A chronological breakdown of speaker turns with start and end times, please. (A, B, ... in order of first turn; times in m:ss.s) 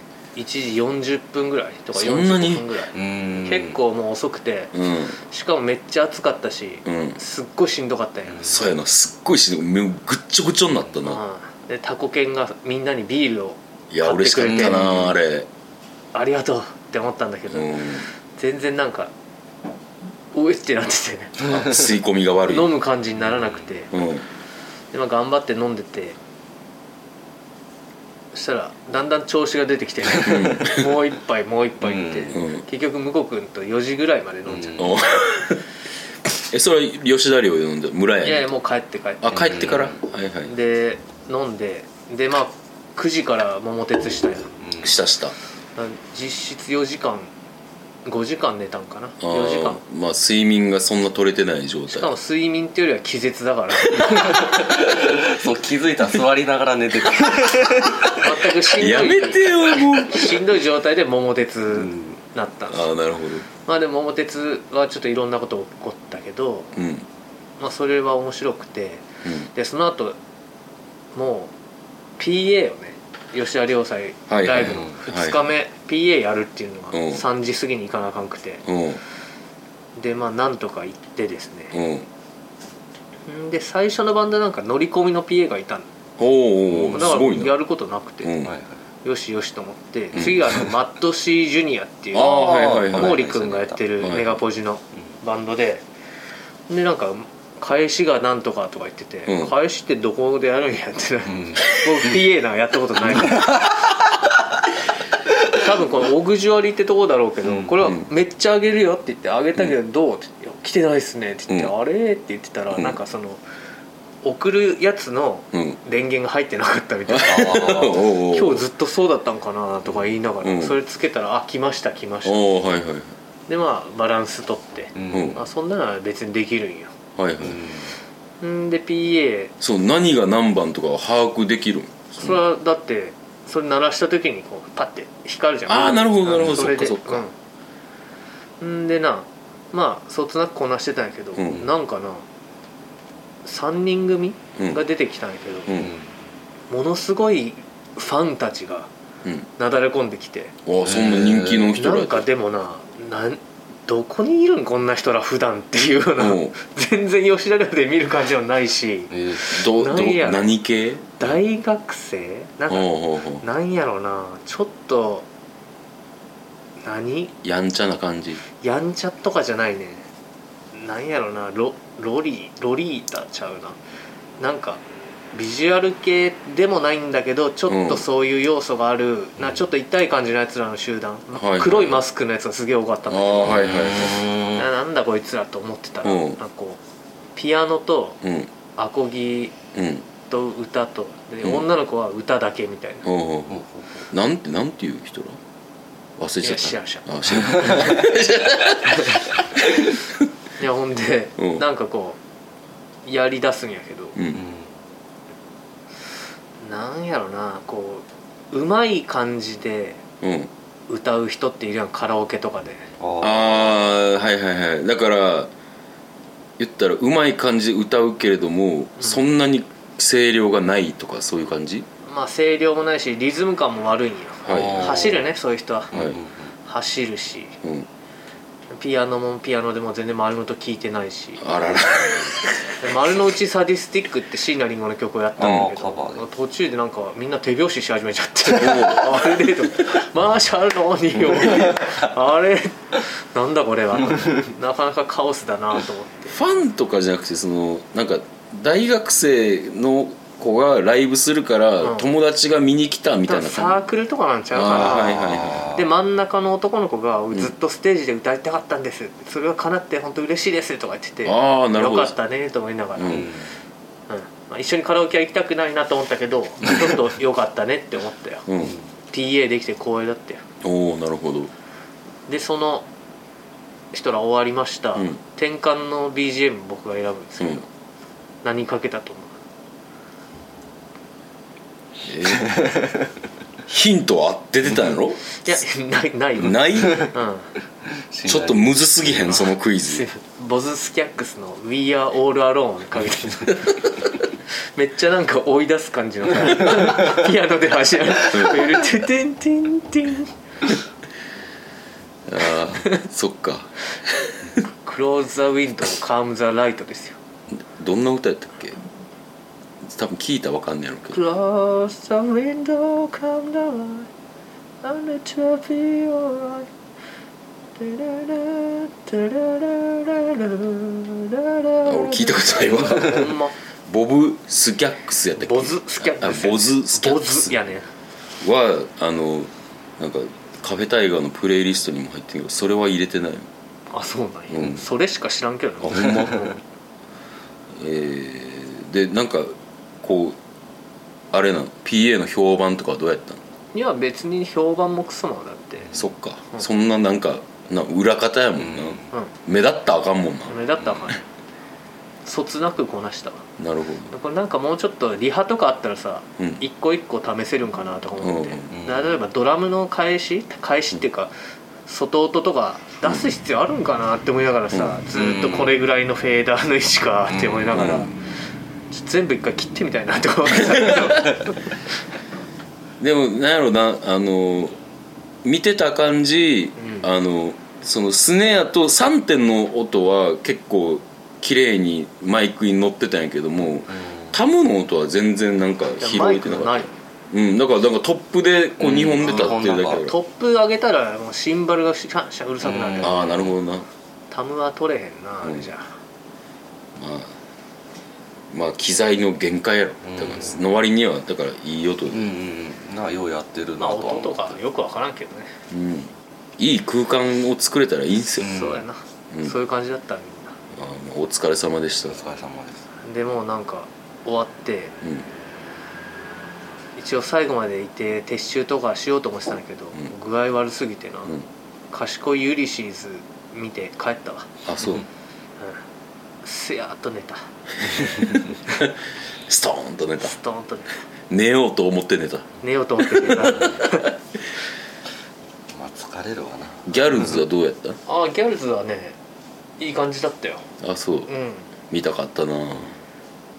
0:00.3-0:08.7 A
0:01.9-0:02.7 B
0:02.9-0:03.8 C
0:04.7-0:05.2 B
0:06.8-0:07.2 B
0:08.3-0:08.7 C
0:08.4-0:11.2 B
0:11.0-0:14.9 A
0:13.9-0:15.5 B
0:14.4-0:15.2 C
0:16.1-0:19.1 A
0:17.5-0:18.1 B
0:20.3-0:21.4 A
0:21.4-0:21.8 C
0:21.4-0:22.7 B
0:22.5-0:23.9 A
0:23.3-0:23.6 C
0:23.9-0:24.2 B
0:24.9-0:26.2 A
0:28.3-0:34.9 A
0:30.2-0:30.9 B
0:31.8-0:32.4 C
0:32.3-0:32.6 B
0:34.4-0:35.0 C
0:34.8-0:35.6 B
0:36.5-0:38.5 B
0:38.2-0:39.7 A
0:39.2-0:40.5 B
0:39.3-0:40.0 C
0:40.5-0:44.5 A
0:44.6-0:45.0 C
0:44.8-0:45.4 B
0:45.8-0:47.3 A
0:48.0-0:49.8 A
0:49.2-0:52.1 B
0:51.9-0:54.6 A
0:54.2-0:58.2 C
0:58.1-1:02.9 A
0:58.8-1:00.4 B
1:01.7-1:02.2 C
1:02.7-1:03.4 B
1:03.6-1:06.7 A
1:06.7-1:07.1 B
1:07.6-1:10.2 A
1:09.2-1:09.5 B
1:11.1-1:11.5 A
1:12.2-1:18.6 A
1:14.3-1:15.4 B
1:14.6-1:15.0 C
1:16.9-1:17.2 B
1:18.6-1:19.0 B
1:20.0-1:21.8 A
1:21.7-1:22.1 B
1:23.3-1:25.9 A
1:26.2-1:27.5 B
1:26.7-1:27.2 C
1:26.9-1:28.3 A
1:28.2-1:28.5 B
1:28.4-1:28.8 C
1:29.0-1:35.8 A
1:30.1-1:30.7 B
1:32.1-1:33.2 B
1:32.2-1:34.1 C
1:34.0-1:34.4 B
1:36.7-1:43.6 A
1:39.3-1:39.5 B
1:41.3-1:42.2 C
1:43.1-1:44.1 C
1:45.5-1:53.4 A
1:47.4-1:47.7 C
1:54.2-2:02.5 A
1:55.5-1:55.8 B
1:57.1-1:58.6 B
1:57.2-1:58.0 C
1:59.8-2:00.2 C
2:00.4-2:00.8 B
2:02.2-2:03.1 B
2:03.5-2:06.9 A
2:04.9-2:05.4 C
2:05.1-2:05.4 B
2:07.2-2:07.6 B
2:07.4-2:07.9 C
2:08.4-2:09.5 A
2:09.6-2:12.4 B
2:12.2-2:17.3 A
2:15.6-2:17.2 B
2:18.6-2:22.2 A
2:21.4-2:21.6 B
2:23.4-2:25.7 A
2:24.6-2:24.8 B
2:25.7-2:25.9 B
2:25.8-2:26.0 C
2:26.7-2:28.9 A
2:29.6-2:30.5 A
2:30.6-2:32.2 B
2:30.8-2:31.8 C
2:31.7-2:40.5 A
2:36.2-2:36.5 B
2:39.1-2:39.5 C
2:39.5-2:41.3 B
2:41.2-2:45.3 A
2:42.7-2:43.4 B
2:46.8-2:47.3 A
2:47.4-2:48.4 B
2:48.6-2:50.1 A
2:50.7-2:53.8 A
2:54.4-2:54.8 A
2:55.3-3:06.8 A
2:57.7-2:58.0 B
3:01.3-3:02.0 B
3:03.1-3:04.2 B
3:03.4-3:04.7 C
3:06.0-3:06.4 B
3:07.3-3:08.2 A
3:08.2-3:08.5 B
3:08.8-3:09.5 A
3:09.7-3:10.0 B
3:10.3-3:13.1 A
3:13.0-3:13.6 B
3:13.5-3:14.1 C
3:14.1-3:15.4 B
3:16.2-3:19.9 B
3:16.4-3:18.1 A
3:17.4-3:17.8 C
3:19.0-3:19.3 A
3:20.6-3:22.2 A
3:21.4-3:21.6 B
3:23.0-3:24.2 A
3:24.2-3:24.4 B
3:24.3-3:24.7 C
3:26.6-3:30.0 A
3:30.2-3:30.5 B
3:30.9-3:32.9 A
3:33.0-3:33.9 C
3:33.2-3:35.5 B
3:36.6-3:41.9 B
3:39.0-3:39.2 A
3:42.0-3:45.9 A
3:44.4-3:45.0 B
3:44.5-3:45.3 C
3:45.9-3:46.2 B
3:45.9-3:46.5 C
3:46.6-3:47.6 A
3:47.6-3:47.9 B
3:48.7-3:51.4 A
3:51.4-3:52.4 B
3:51.8-3:52.4 C
3:52.8-4:06.3 A
3:55.4-3:56.2 C
3:55.4-3:55.7 B
3:58.5-3:59.5 B
4:01.4-4:01.9 C
4:06.3-4:13.8 B
4:11.8-4:12.1 A
4:13.3-4:23.3 A
4:14.5-4:15.6 B
4:14.7-4:15.9 C
4:21.2-4:22.1 B
4:23.0-4:23.3 B
4:23.1-4:23.5 C
4:24.1-4:28.4 A
4:28.5-4:28.7 B
4:28.6-4:28.9 C
4:29.1-4:30.4 A
4:30.6-4:31.5 B
4:32.3-4:32.9 A
4:33.9-4:37.7 A
4:38.4-4:39.3 A
4:42.0-4:42.6 B
4:42.4-4:42.9 C
4:43.7-4:45.6 B
4:45.4-4:47.5 A
4:46.4-4:47.1 B
4:46.8-4:47.1 C
4:47.9-4:48.7 C
4:48.2-4:50.0 B
4:49.8-4:53.7 A
4:54.7-5:00.3 A
4:58.3-4:58.8 B
5:02.3-5:04.3 B
5:04.7-5:07.2 A
5:07.7-5:08.8 B
5:09.8-5:11.2 B
5:11.1-5:14.1 A
5:14.8-5:16.7 A
5:17.8-5:23.5 A
5:21.8-5:23.3 B
5:23.9-5:27.6 B
5:25.4-5:27.8 A
5:28.4-5:33.5 B
5:33.9-5:36.6 A
5:34.5-5:34.8 B
5:35.8-5:36.5 B
5:37.7-5:40.4 B
5:41.3-5:43.4 B
5:43.7-5:45.9 A
5:45.9-5:50.6 B
5:48.6-5:49.1 C
5:50.5-5:51.2 A
5:50.8-5:51.1 C
5:52.2-5:53.4 A
5:53.6-5:54.1 B
5:54.1-6:01.3 A
5:58.2-5:58.7 B
5:58.7-5:59.2 C
6:01.8-6:08.1 A
6:04.7-6:05.0 B
6:05.1-6:05.8 C
6:07.3-6:08.0 C
6:07.7-6:08.1 B
6:08.9-6:11.8 A
6:13.0-6:14.8 B
6:15.4-6:30.2 B
6:16.8-6:17.1 A
6:23.9-6:24.4 C
6:26.0-6:26.9 A
6:28.8-6:30.1 C
6:29.2-6:33.4 A
6:32.6-6:33.5 C
6:33.0-6:33.9 B
6:34.3-6:35.9 A
6:37.0-6:37.3 B
6:38.5-6:42.3 B
6:40.0-6:40.6 C
6:42.1-6:44.6 C
6:43.8-6:45.5 A
6:45.7-6:48.5 B
6:48.4-6:48.8 C
6:48.4-6:50.6 A
6:49.3-6:49.6 B
6:50.7-6:52.2 B
6:52.1-6:52.9 C
6:53.0-6:54.9 A
6:55.0-6:55.3 B
6:57.0-7:01.4 A
7:01.9-7:04.5 A
7:04.6-7:05.0 B
7:06.4-7:08.4 A
7:09.5-7:10.3 B
7:10.2-7:11.0 A
7:11.3-7:12.4 B
7:12.6-7:14.1 A
7:13.0-7:14.1 B
7:15.7-7:17.4 C
7:16.9-7:18.0 B
7:18.1-7:19.2 A
7:19.8-7:20.7 A
7:20.8-7:21.3 B
7:21.3-7:21.7 A
7:21.9-7:23.0 B